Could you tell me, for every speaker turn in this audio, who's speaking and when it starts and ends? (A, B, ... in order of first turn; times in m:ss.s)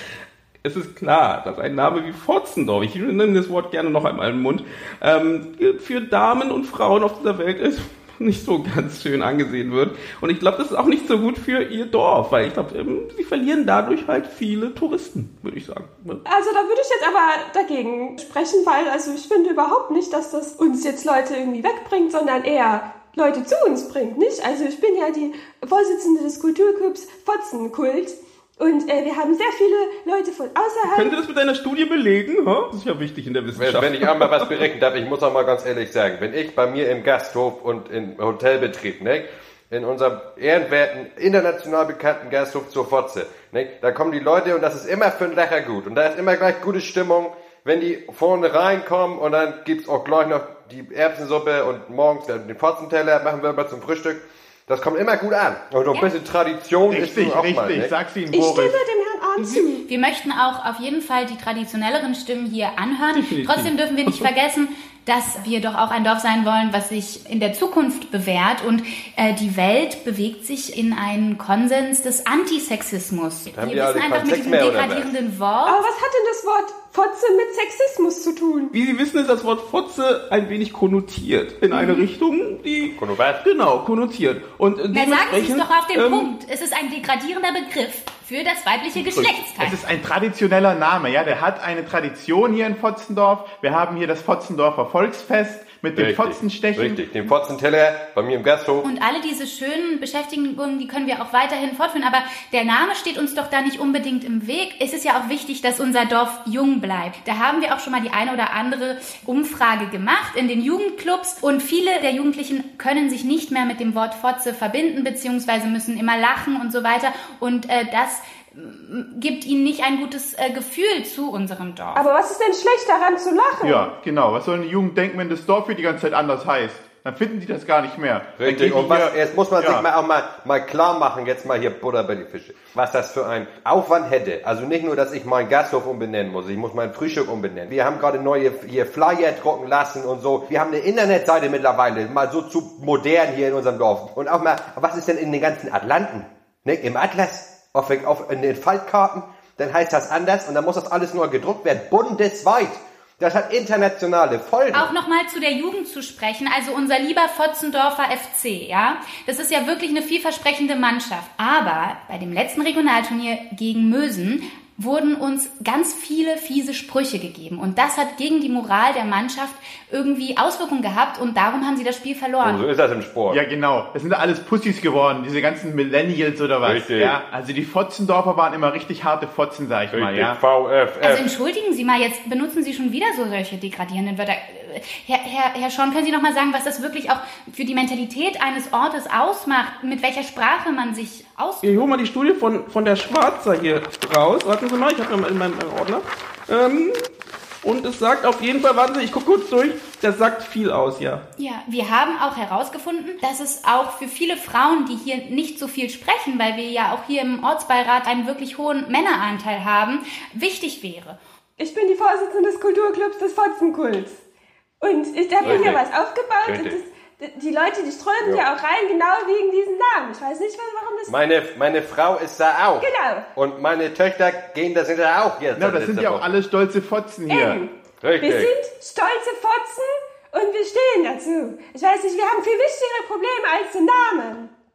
0:00.6-0:16.2 A
0:16.2-0:31.2 B
0:30.9-0:34.7 A
0:33.6-0:57.9 C
0:56.9-0:58.8 D
0:58.3-0:59.8 B
0:59.4-1:15.8 E
1:03.1-1:04.3 A
1:13.5-1:15.1 C
1:15.6-1:18.7 B
1:18.7-1:26.3 A
1:21.7-1:22.0 E
1:22.9-1:23.4 C
1:24.9-1:29.8 E
1:29.0-1:29.4 A
1:29.6-1:37.0 D
1:36.0-1:38.9 C
1:38.8-2:02.0 E
2:02.0-2:03.9 B
2:03.6-2:09.9 D
2:08.4-2:34.9 C
2:34.7-2:52.6 E
2:52.4-2:53.4 C
2:53.3-3:00.4 D
2:56.6-2:57.2 C
2:59.9-3:01.3 C
3:01.0-3:11.9 E
3:11.6-3:17.1 A
3:17.6-3:21.2 A
3:21.4-3:31.2 E
3:31.6-3:34.2 B
3:34.8-3:41.2 B
3:35.4-3:35.8 C
3:36.4-3:36.8 C
3:38.2-3:38.5 C
3:41.1-3:46.3 C
3:42.8-3:43.3 B
3:45.6-3:47.6 D
3:47.3-3:54.5 B
3:48.0-3:48.5 C